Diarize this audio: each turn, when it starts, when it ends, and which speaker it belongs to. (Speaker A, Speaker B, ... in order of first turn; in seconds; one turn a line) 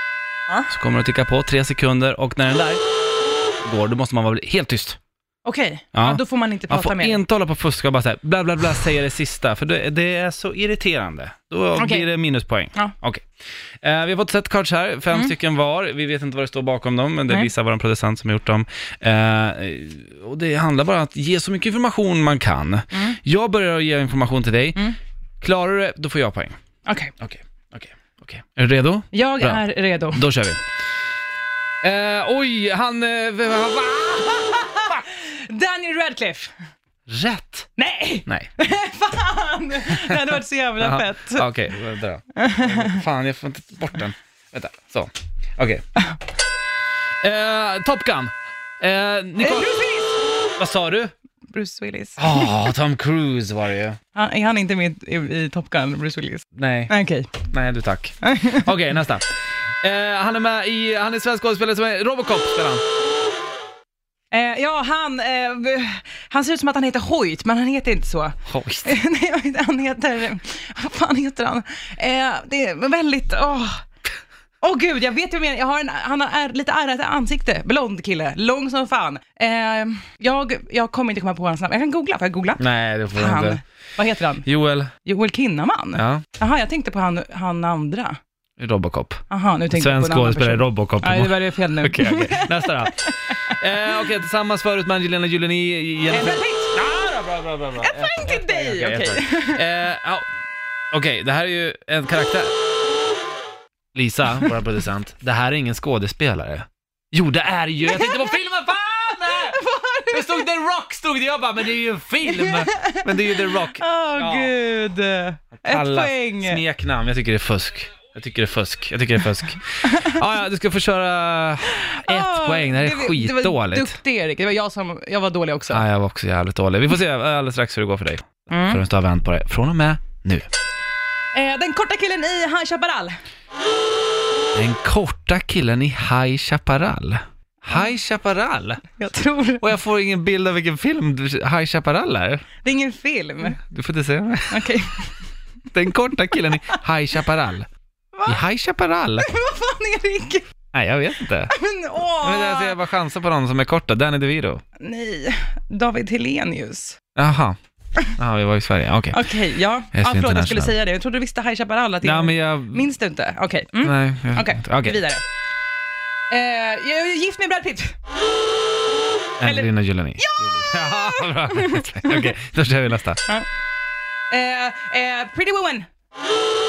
Speaker A: 0.7-2.8
Speaker A: 3.6-5.0
Speaker B: 5.4-7.2
Speaker A: 5.9-13.2
Speaker B: 11.7-12.1
Speaker A: 13.8-26.6
Speaker B: 22.9-23.2
Speaker B: 26.9-27.1
Speaker A: 27.2-30.6
Speaker B: 29.1-30.2
Speaker A: 31.8-35.0
Speaker B: 34.8-36.5
Speaker A: 37.1-37.7
Speaker B: 37.8-41.5
Speaker A: 40.8-45.8
Speaker B: 42.4-43.0
Speaker A: 47.2-49.7
Speaker B: 49.4-50.2
Speaker A: 50.6-51.1
Speaker B: 51.5-52.7
Speaker A: 52.2-54.0
Speaker B: 54.1-57.4
Speaker A: 56.5-56.9
Speaker A: 57.4-62.8
Speaker B: 58.2-58.7
Speaker B: 64.3-73.8
Speaker A: 68.5-68.9
Speaker B: 74.6-82.6
Speaker A: 82.6-83.6
Speaker B: 83.1-84.5
Speaker A: 84.4-84.9
Speaker B: 85.0-88.2
Speaker A: 85.9-86.2
Speaker A: 88.6-100.3
Speaker B: 89.3-93.5
Speaker B: 96.1-96.7
Speaker B: 97.8-99.6
Speaker A: 100.9-102.5
Speaker A: 103.9-114.5
Speaker B: 107.8-108.4
Speaker B: 109.2-110.5
Speaker B: 112.2-116.6
Speaker A: 115.6-124.0
Speaker B: 119.8-120.2
Speaker B: 121.7-125.8
Speaker A: 125.7-130.5
Speaker B: 128.5-128.8
Speaker B: 131.3-133.2
Speaker A: 134.5-138.8
Speaker B: 139.0-139.7
Speaker A: 139.6-142.4
Speaker B: 142.6-143.6
Speaker A: 143.6-144.6
Speaker B: 144.5-145.2
Speaker A: 145.7-147.7
Speaker B: 148.1-148.4
Speaker A: 148.2-149.3
Speaker B: 149.2-150.4
Speaker A: 150.7-151.5
Speaker B: 151.5-152.8
Speaker A: 152.2-154.6
Speaker B: 154.8-157.0
Speaker A: 157.2-159.2
Speaker B: 159.1-165.2
Speaker A: 159.9-160.7
Speaker A: 162.0-162.8
Speaker A: 163.8-165.0
Speaker B: 166.3-168.0
Speaker A: 169.4-173.2
Speaker B: 169.4-172.3
Speaker B: 174.3-175.8